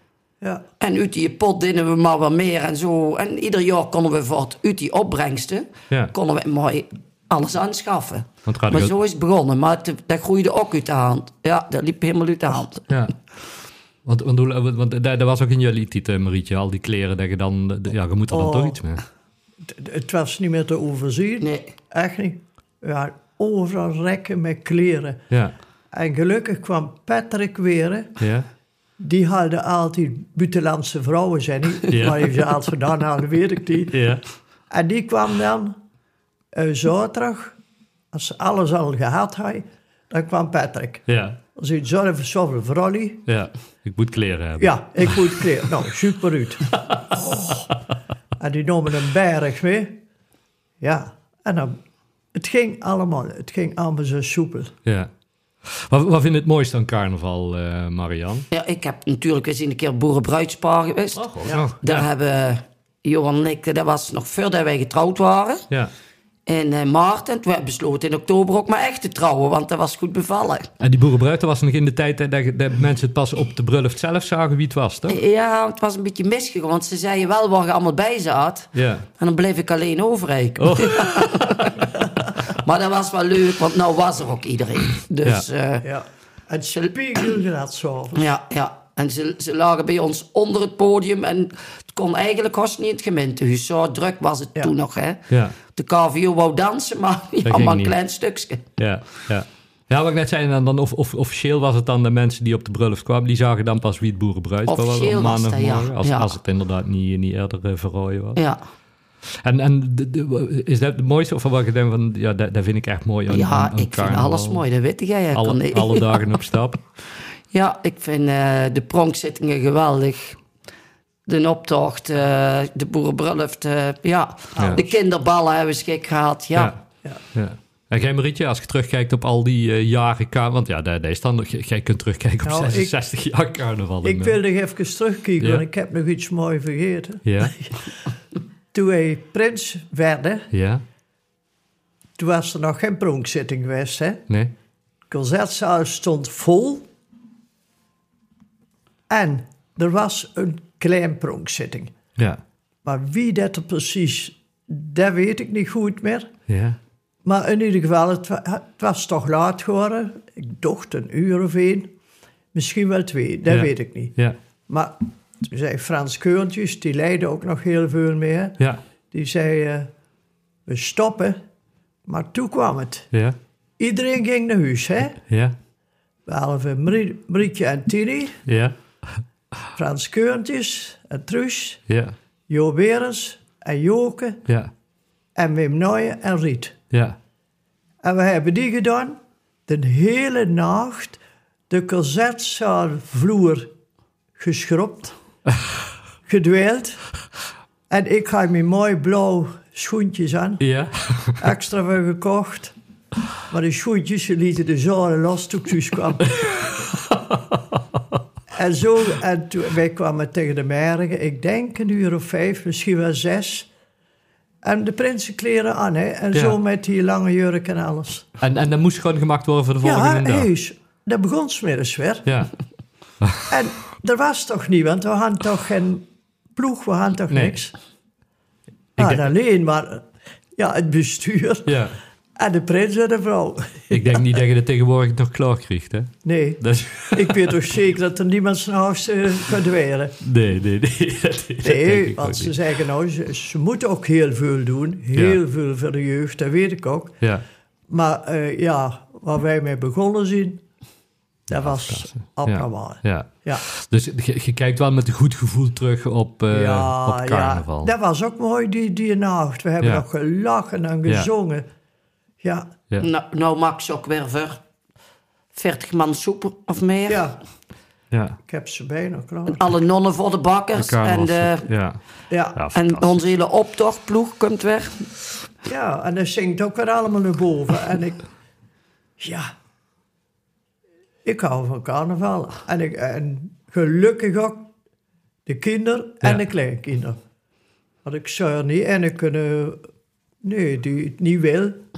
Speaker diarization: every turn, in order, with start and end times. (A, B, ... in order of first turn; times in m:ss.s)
0:00.8-0:12.9 A
0:08.5-0:08.9 B
0:14.0-0:19.0 B
0:18.3-0:18.8 C
0:19.6-0:25.2 C
0:21.4-0:21.7 A
0:25.3-0:25.6 B
0:25.9-0:28.2 C
0:28.2-0:28.5 B
0:29.0-0:34.0 C
0:31.9-0:32.4 B
0:33.9-0:34.2 B
0:34.7-0:35.8 C
0:36.5-0:37.6 C
0:38.1-0:43.2 C
0:41.1-0:41.4 B
0:43.3-0:45.5 B
0:44.6-0:47.7 C
0:48.4-0:50.0 C
0:50.8-0:51.8 C
0:52.3-0:54.7 C
0:55.6-0:58.5 B
0:58.5-1:05.7 A
1:01.2-1:02.1 B
1:06.5-1:10.7 A
1:10.8-1:15.2 B
1:15.1-1:21.8 A
1:18.7-1:19.1 B
1:20.6-1:21.9 B
1:22.4-1:25.9 A
1:25.8-1:28.2 C
1:28.2-1:38.7 A
1:35.3-1:35.6 B
1:37.4-1:38.0 B
1:38.8-1:48.4 B
1:44.7-1:46.4 A
1:48.4-1:48.6 A
1:49.3-1:54.6 B
1:53.3-1:56.3 A
1:55.3-1:56.8 B
1:57.5-2:00.4 A
2:01.3-2:06.7 A
2:04.6-2:04.9 C
2:06.6-2:06.8 B
2:07.3-2:14.4 B
2:12.4-2:12.9 C
2:14.0-2:18.1 C
2:15.4-2:15.6 B
2:17.3-2:17.6 B
2:18.7-2:20.5 C
2:20.5-2:20.8 B
2:22.2-2:24.2 C
2:25.1-2:26.9 C
2:29.1-2:31.9 C
2:32.8-2:36.3 C
2:36.5-2:36.8 B
2:37.2-2:41.9 C
2:42.5-2:44.2 C
2:43.5-2:44.4 B
2:44.7-2:48.6 C
2:49.1-2:49.9 C
2:50.7-2:51.4 C
2:52.1-2:53.1 C
2:53.8-2:55.2 C
2:55.3-2:55.6 B
2:56.3-2:58.4 C
2:58.5-2:59.2 B
2:59.8-3:01.8 C
3:01.9-3:02.2 B
3:02.5-3:04.4 C
3:04.5-3:04.7 B
3:05.4-3:06.8 C
3:06.9-3:07.2 B
3:08.0-3:11.2 C
3:11.7-3:13.7 C
3:14.4-3:15.1 C
3:16.3-3:17.0 C
3:17.9-3:20.6 C
3:20.6-3:21.5 B
3:21.4-3:22.7 C
3:23.5-3:26.4 C
3:26.4-3:27.8 B
3:28.5-3:33.7 C
3:34.6-3:38.3 C
3:36.3-3:36.6 B
3:38.4-3:40.5 B
3:39.8-3:42.3 C
3:42.3-3:42.5 B
3:43.2-3:43.5 B
3:43.5-3:46.0 C
3:46.6-3:47.7 C
3:47.3-3:47.6 B
3:49.0-3:49.2 B
3:49.0-3:51.8 C
3:51.7-3:52.0 B
3:52.4-3:54.0 C
3:53.9-3:57.6 B
3:56.2-4:00.2 C
4:00.2-4:02.6 B
4:01.6-4:07.2 C
4:05.1-4:05.4 B
4:07.9-4:10.6 C
4:11.5-4:17.9 B
4:11.5-4:13.6 C
4:16.5-4:21.7 C
4:22.4-4:22.7 C
4:23.0-4:24.6 A
4:25.5-4:27.2 A
4:27.1-4:27.4 C
4:28.1-4:28.4 B
4:28.5-4:29.6 C
4:29.6-4:31.7 A
4:30.8-4:32.0 B
4:32.3-4:32.6 C
4:32.6-4:33.1 B
4:32.7-4:35.1 A
4:35.7-4:38.3 C
4:39.2-4:39.5 C
4:41.2-4:44.7 C
4:45.5-4:47.2 C
4:48.0-4:49.8 C
4:50.4-4:51.8 C